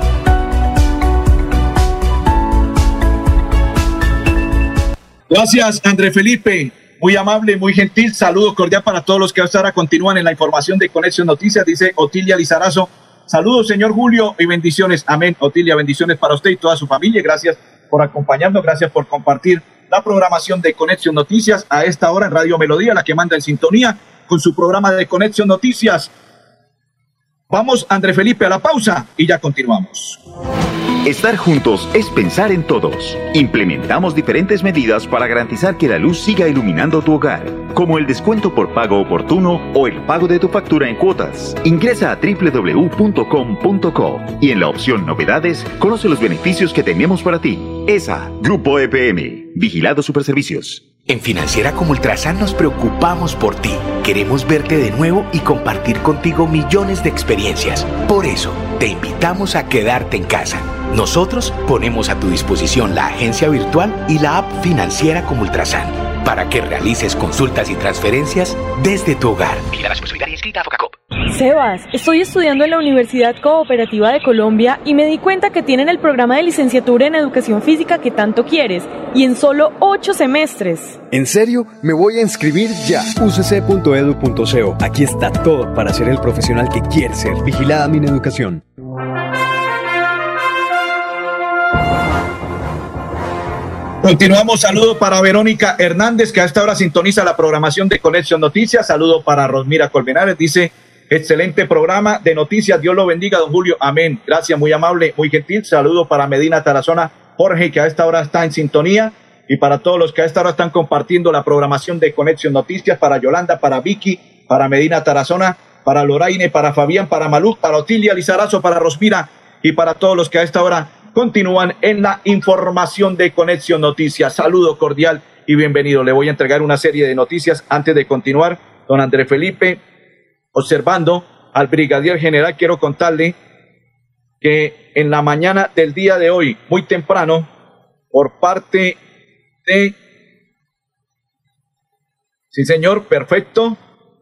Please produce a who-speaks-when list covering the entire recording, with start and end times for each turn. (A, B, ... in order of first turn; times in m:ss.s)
0:05.3-0:26.1 A
0:27.5-0:30.2 A
0:31.0-0:50.9 B
0:51.0-1:11.0 C
1:11.3-1:21.0 D
1:21.1-1:28.6 E
1:34.0-2:09.8 A
2:10.5-2:13.4 A
2:14.4-2:17.5 A
2:18.1-2:19.0 A
2:19.7-2:20.0 A
2:22.5-2:23.8 A